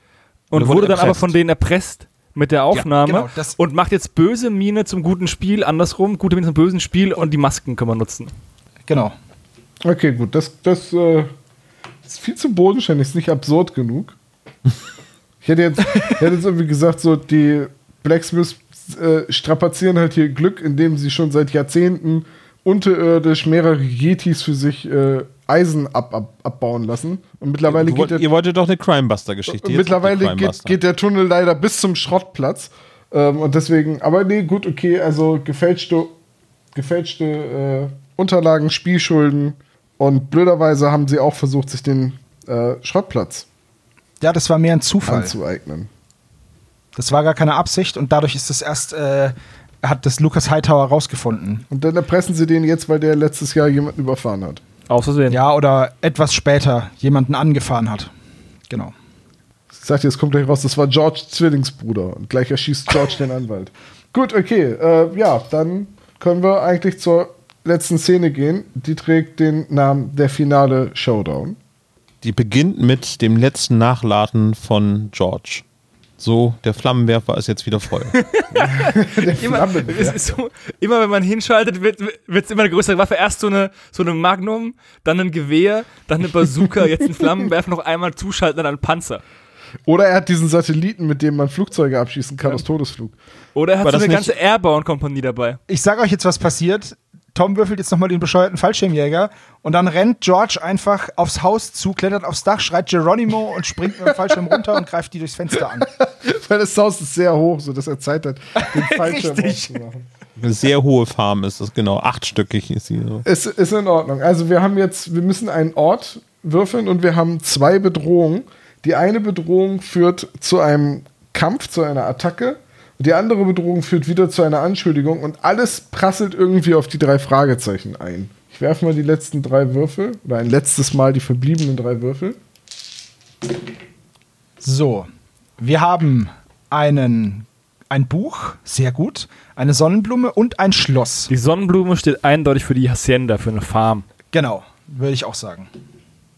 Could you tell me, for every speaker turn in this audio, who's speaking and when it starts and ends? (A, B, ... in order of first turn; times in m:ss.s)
0:00.5-0:08.3 A
0:00.5-0:01.3 B
0:03.0-0:03.6 C
0:08.9-0:09.1 C
0:09.8-0:11.3 D
0:12.0-0:14.2 D
0:15.4-0:28.2 D
0:27.7-0:30.8 B
0:29.5-0:36.1 D
0:36.7-0:43.4 D
0:44.2-0:45.3 C
0:45.0-0:45.9 D
0:47.0-0:51.6 C
0:51.7-0:54.6 D
0:54.9-0:55.4 A
0:55.3-0:58.1 C
0:59.7-1:11.6 D
1:12.2-1:15.6 B
1:16.2-1:18.1 B
1:18.1-1:29.2 A
1:18.6-1:20.2 D
1:29.8-1:33.2 D
1:33.5-1:35.6 A
1:33.8-1:34.3 B
1:35.7-1:45.9 C
1:45.8-1:50.1 D
1:48.6-1:49.8 C
1:50.4-1:53.2 B
1:53.2-2:12.4 D
2:14.6-2:21.3 C
2:21.3-2:24.0 A
2:24.3-2:25.7 C